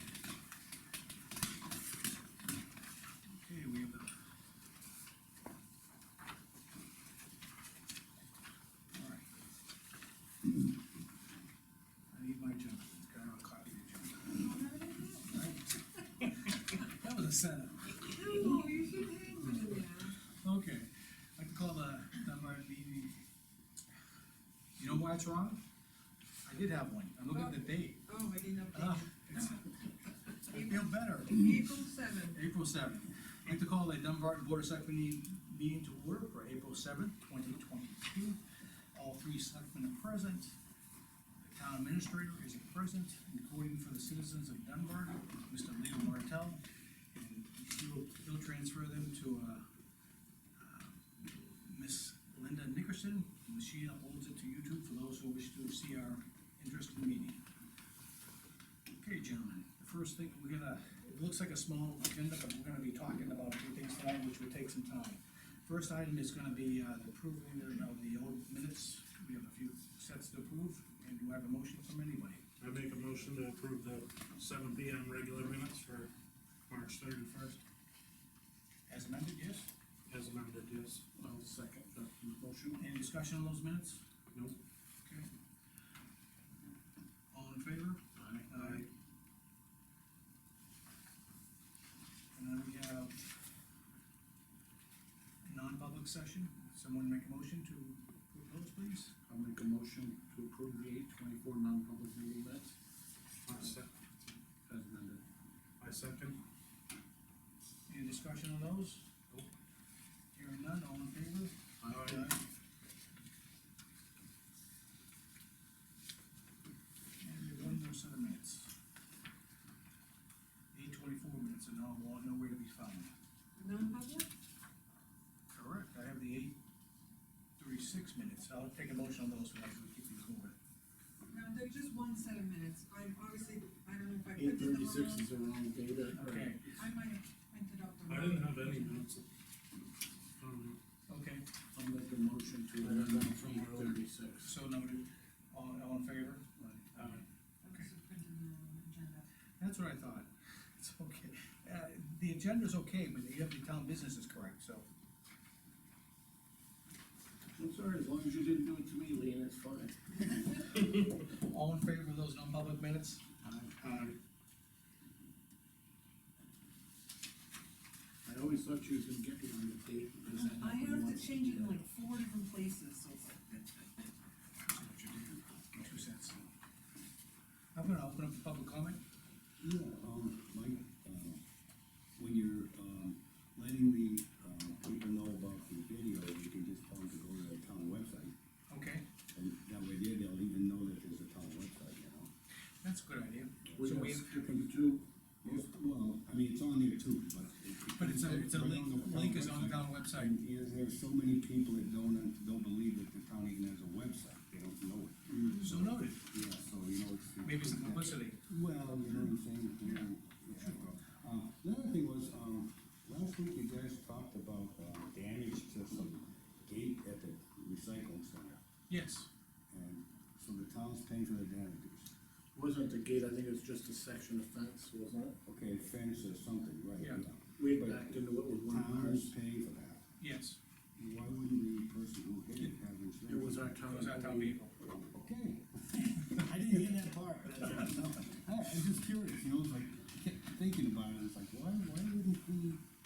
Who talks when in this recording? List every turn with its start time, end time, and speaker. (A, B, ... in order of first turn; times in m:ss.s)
0:03.4-0:04.1 A
0:08.9-0:09.3 A
0:12.1-0:14.5 A
0:14.4-0:15.3 B
0:15.3-0:18.2 A
0:18.1-0:20.1 B
0:20.3-0:23.2 A
0:24.8-0:25.6 A
0:26.4-0:28.1 A
0:27.3-0:29.4 B
0:28.7-0:29.7 A
0:30.4-0:38.4 A
0:31.3-0:32.4 B
0:38.9-0:40.5 A
0:41.4-0:46.6 A
0:47.1-0:49.6 A
0:50.6-0:57.4 A
0:59.0-1:12.4 A
1:12.6-1:16.1 C
1:16.7-1:17.6 C
1:18.9-1:19.7 A
1:20.1-1:21.0 C
1:21.2-1:22.8 D
1:22.8-1:24.0 A
1:27.3-1:28.8 A
1:28.2-1:28.8 D
1:32.3-1:33.2 A
1:35.4-1:39.1 A
1:39.3-1:42.7 D
1:43.4-1:43.9 C
1:44.7-1:45.2 D
1:45.8-1:46.4 C
1:47.9-1:49.0 A
1:50.3-1:51.6 A
1:51.8-1:52.3 D
1:51.8-1:52.3 C
1:57.2-1:58.7 A
2:00.7-2:03.1 A
2:03.6-2:04.3 B
2:05.5-2:06.6 A
2:07.6-2:10.5 A
2:11.3-2:15.3 B
2:14.4-2:16.6 D
2:16.1-2:16.8 A
2:16.8-2:19.0 B
2:18.1-2:19.3 C
2:20.4-2:20.8 C
2:21.1-2:21.4 A
2:21.7-2:24.5 D
2:22.8-2:24.0 C
2:24.4-2:26.8 A
2:26.9-2:27.2 C
2:27.6-2:29.3 B
2:29.6-2:34.8 A
2:37.6-2:41.0 D
2:41.3-2:43.2 A
2:43.4-2:44.1 D
2:43.8-2:44.1 A
2:48.2-2:51.8 D
2:50.4-2:53.7 B
2:54.7-2:56.4 A
2:57.7-2:59.0 A
2:59.6-3:01.4 E
3:02.2-3:08.3 E
3:08.7-3:09.0 A
3:09.3-3:12.3 E
3:12.8-3:14.4 A
3:13.6-3:14.0 E
3:13.8-3:15.5 D
3:15.4-3:38.6 E
3:18.0-3:20.3 A
3:25.5-3:26.2 A
3:27.4-3:28.4 A
3:38.9-3:39.3 A
3:39.7-3:42.1 E
3:42.5-3:45.4 D
3:45.4-3:50.1 E
3:47.0-3:47.2 A
3:47.6-3:49.3 D
3:50.2-3:50.6 A
3:51.0-3:53.8 E
3:53.3-3:54.6 D
3:53.9-3:54.8 A
3:54.8-4:02.8 E